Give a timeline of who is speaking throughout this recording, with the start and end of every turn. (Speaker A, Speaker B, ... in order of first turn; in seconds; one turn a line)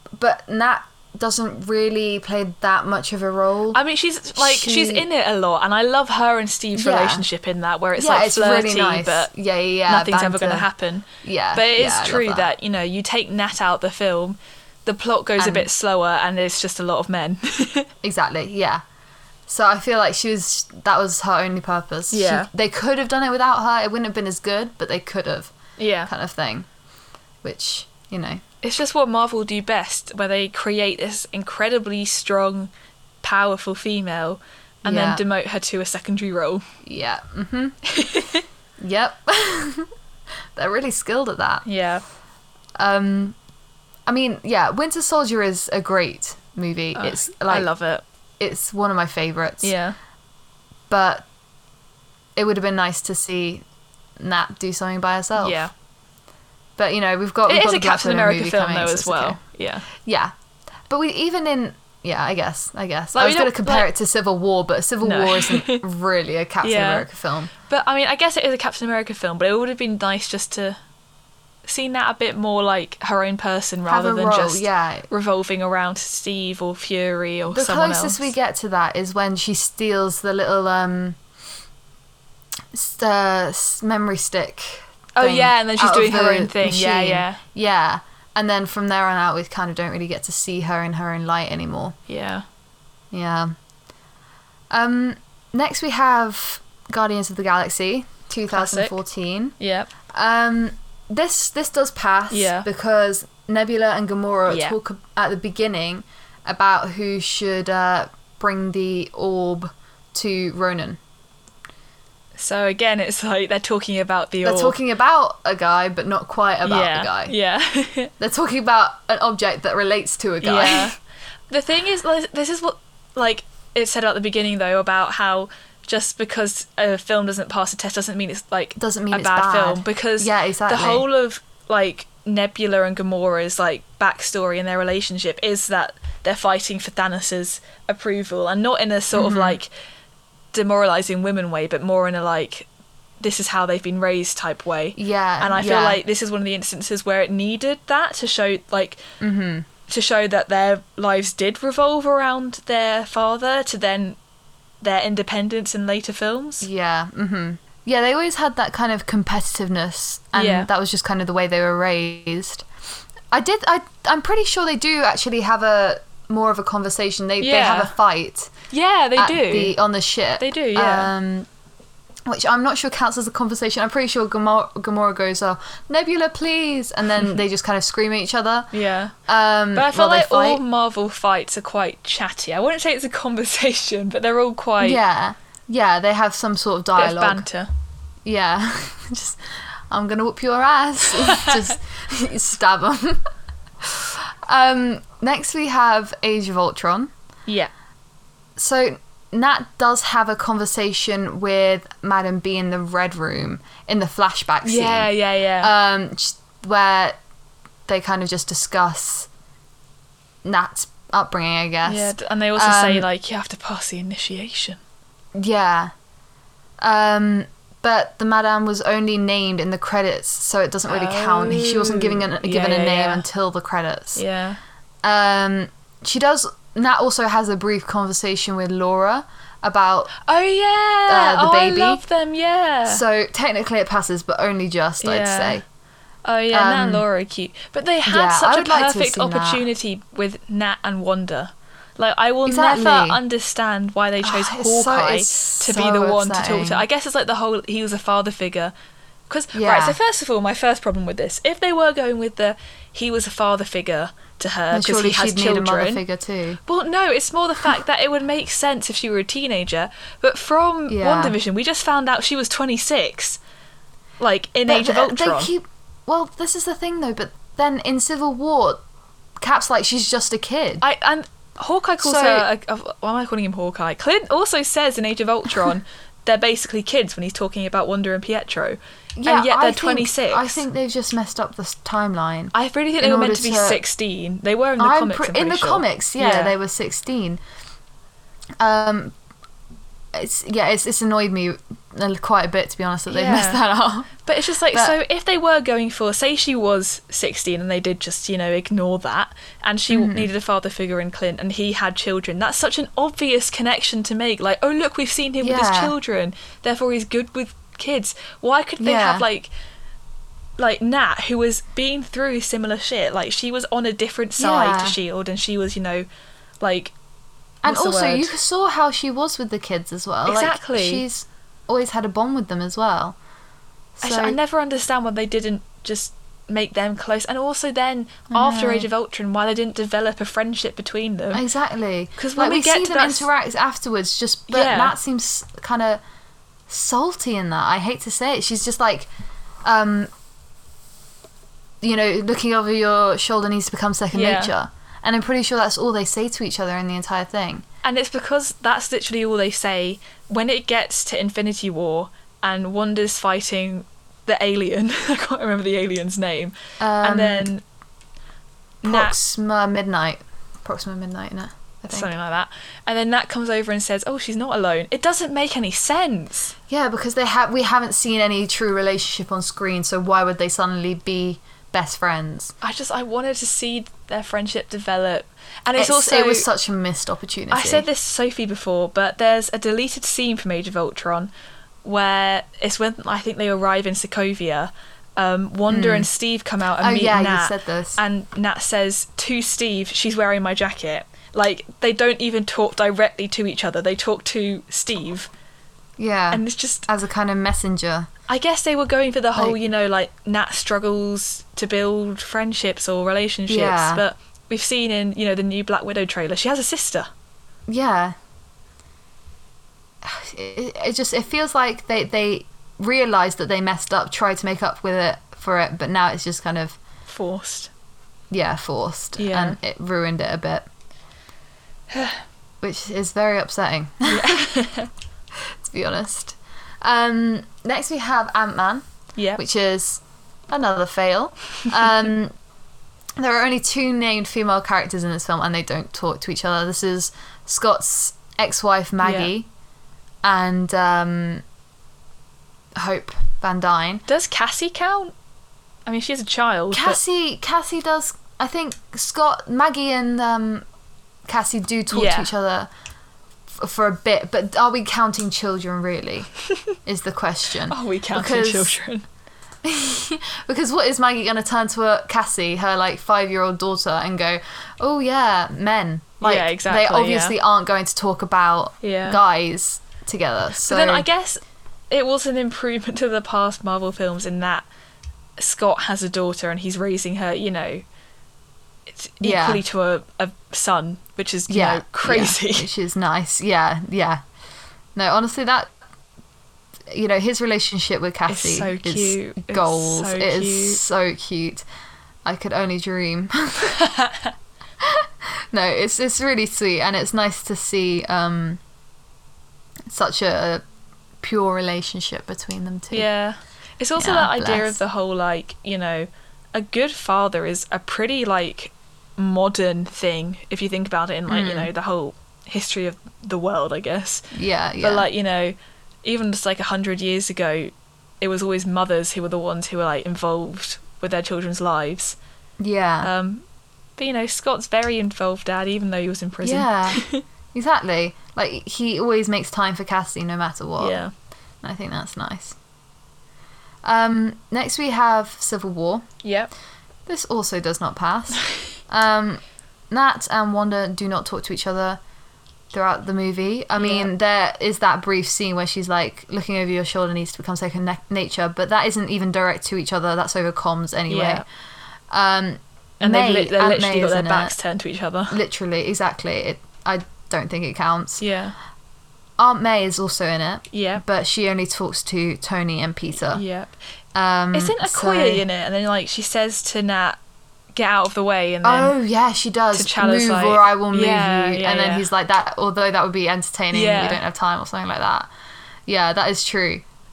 Speaker A: 0.1-3.8
Speaker B: 3.7-9.3
Speaker A: 4.3-5.1
Speaker A: 6.8-7.3
Speaker A: 8.0-10.7
Speaker B: 9.9-17.9
Speaker A: 11.2-12.5
Speaker A: 15.4-15.7
Speaker A: 18.0-18.8
Speaker A: 19.5-25.5
Speaker B: 22.1-22.5
Speaker B: 25.8-26.1
Speaker A: 26.1-26.7
Speaker A: 27.4-28.4
Speaker B: 28.6-32.7
Speaker B: 33.2-36.6
Speaker A: 34.9-35.2
Speaker A: 36.8-37.8
Speaker B: 37.9-38.4
Speaker A: 38.8-39.9
Speaker A: 40.6-41.6
Speaker B: 41.6-42.0
Speaker A: 42.8-43.4
Speaker A: 44.1-47.7
Speaker B: 47.0-48.0
Speaker A: 48.4-49.7
Speaker B: 49.6-50.0
Speaker A: 50.9-51.3
Speaker A: 52.4-53.6
Speaker A: 54.2-55.6
Speaker B: 55.4-55.7
Speaker A: 56.8-59.4
Speaker B: 57.5-59.9
Speaker A: 60.0-60.3
Speaker A: 60.9-67.5
Speaker B: 63.1-63.9
Speaker B: 65.0-65.8
Speaker B: 66.6-67.1
Speaker B: 67.7-70.8
Speaker B: 71.7-78.3
Speaker A: 73.9-75.1
Speaker A: 77.5-81.2
Speaker A: 82.7-92.0
Speaker B: 85.1-87.4
Speaker B: 92.1-92.4
Speaker A: 93.1-93.5
Speaker A: 94.7-99.5
Speaker B: 98.5-99.0
Speaker B: 99.6-99.9
Speaker A: 100.1-111.0
Speaker B: 102.3-102.7
Speaker B: 104.5-104.8
Speaker B: 112.4-114.8
Speaker A: 114.4-117.3
Speaker B: 116.6-118.1
Speaker A: 118.2-120.9
Speaker B: 120.4-121.0
Speaker B: 121.5-139.7
Speaker A: 128.8-131.1
Speaker A: 139.1-139.6
Speaker B: 140.5-142.7
Speaker B: 143.2-149.0
Speaker A: 144.9-146.0
Speaker A: 149.2-149.7
Speaker B: 149.9-154.2
Speaker B: 154.8-156.7
Speaker A: 156.6-162.7
Speaker B: 160.3-160.7
Speaker A: 163.3-168.5
Speaker B: 167.4-167.9
Speaker B: 168.7-169.8
Speaker A: 169.2-171.5
Speaker B: 170.4-171.1
Speaker A: 172.3-178.7
Speaker B: 178.7-179.1
Speaker A: 179.3-180.6
Speaker B: 179.8-185.0
Speaker A: 184.8-187.4
Speaker B: 186.9-187.7
Speaker A: 188.2-193.2
Speaker B: 191.1-191.7
Speaker A: 193.8-197.1
Speaker A: 198.6-207.2
Speaker B: 204.6-205.7
Speaker A: 207.9-209.3
Speaker A: 210.4-213.1
Speaker B: 211.8-214.8
Speaker A: 215.3-215.9
Speaker A: 216.8-224.2
Speaker B: 220.9-223.2
Speaker B: 224.2-224.6
Speaker A: 225.0-230.1
Speaker B: 230.2-233.0
Speaker A: 231.1-232.0
Speaker A: 232.9-235.6
Speaker B: 235.0-235.6
Speaker B: 236.2-248.7
Speaker A: 236.5-237.1
Speaker A: 238.1-239.6
Speaker A: 242.4-243.2
Speaker A: 244.2-246.8
Speaker B: 249.3-256.0
Speaker A: 249.5-250.0
Speaker A: 254.7-256.6
Speaker B: 256.6-263.4
Speaker A: 260.9-261.4
Speaker B: 264.2-265.5
Speaker A: 264.7-268.8
Speaker A: 269.4-270.8
Speaker B: 270.8-280.6
Speaker A: 272.0-272.5
Speaker A: 279.1-283.8
Speaker B: 282.5-286.6
Speaker A: 284.8-287.4
Speaker A: 288.6-289.1
Speaker A: 290.1-294.1
Speaker B: 293.1-293.6
Speaker B: 294.2-309.5
Speaker A: 299.9-300.3
Speaker A: 305.4-305.9
Speaker A: 308.8-309.3
Speaker B: 310.6-316.1
Speaker A: 314.4-315.0
Speaker B: 316.6-316.9
Speaker B: 317.6-318.3
Speaker A: 317.6-323.2
Speaker B: 320.2-321.1
Speaker A: 324.0-324.4
Speaker B: 324.0-331.4
Speaker A: 328.3-328.9
Speaker A: 331.3-336.0
Speaker B: 332.2-333.3
Speaker B: 334.5-334.9
Speaker A: 336.7-339.1
Speaker A: 339.6-340.1
Speaker A: 341.8-347.6
Speaker B: 344.1-344.5
Speaker B: 347.8-357.6
Speaker A: 356.8-357.5
Speaker B: 358.8-359.1
Speaker A: 358.8-362.1
Speaker B: 361.9-366.6
Speaker A: 366.7-372.6
Speaker B: 372.6-376.5
Speaker A: 375.8-377.9
Speaker B: 377.5-381.3
Speaker B: 381.8-395.3
Speaker A: 385.7-386.1
Speaker A: 386.8-388.0
Speaker A: 396.0-398.1
Speaker B: 396.3-396.9
Speaker B: 398.3-407.1
Speaker A: 403.5-404.0
Speaker A: 407.7-408.1
Speaker A: 410.0-416.8
Speaker B: 417.1-417.7
Speaker A: 418.3-420.6
Speaker B: 419.2-419.6
Speaker B: 421.9-422.2
Speaker A: 422.6-424.5
Speaker B: 424.1-424.9
Speaker A: 425.4-428.9
Speaker B: 429.2-429.4
Speaker A: 429.4-432.3
Speaker A: 433.2-439.5
Speaker B: 439.0-439.3
Speaker A: 440.2-441.4
Speaker A: 442.8-444.0
Speaker B: 444.1-445.1
Speaker B: 445.9-447.0
Speaker A: 446.7-450.6
Speaker A: 451.3-452.7
Speaker B: 451.9-452.3
Speaker A: 453.5-456.3
Speaker A: 456.9-458.7
Speaker B: 457.7-459.1
Speaker A: 459.6-471.1
Speaker B: 466.2-467.4
Speaker B: 468.8-469.2
Speaker B: 470.6-474.7
Speaker B: 475.4-477.9
Speaker B: 478.9-482.7
Speaker A: 479.2-479.6
Speaker A: 481.5-484.2
Speaker A: 484.9-485.7
Speaker A: 486.9-491.6
Speaker B: 488.3-490.8
Speaker A: 492.2-493.8
Speaker B: 493.7-494.3
Speaker A: 494.8-498.6
Speaker A: 499.9-500.6
Speaker A: 501.2-503.1
Speaker B: 502.9-514.3
Speaker A: 504.0-504.8
Speaker A: 511.3-511.7
Speaker A: 514.3-515.1
Speaker B: 514.8-522.2
Speaker A: 522.6-523.1
Speaker B: 523.0-523.4
Speaker B: 524.0-527.2
Speaker A: 526.4-527.0
Speaker A: 527.5-531.0
Speaker B: 530.8-531.1
Speaker A: 531.6-532.6
Speaker A: 533.8-536.0
Speaker B: 536.2-536.5
Speaker A: 537.1-542.0
Speaker A: 542.7-551.4
Speaker B: 543.8-544.1
Speaker B: 551.1-551.4
Speaker A: 552.1-554.5
Speaker B: 553.0-555.4
Speaker A: 555.3-558.2
Speaker B: 558.2-558.5
Speaker A: 559.4-563.4
Speaker B: 560.7-561.0
Speaker B: 563.3-563.7
Speaker A: 564.1-565.4
Speaker B: 564.5-567.2
Speaker B: 567.8-568.9
Speaker A: 568.6-575.3
Speaker B: 569.7-572.1
Speaker B: 573.7-574.2
Speaker A: 575.9-576.8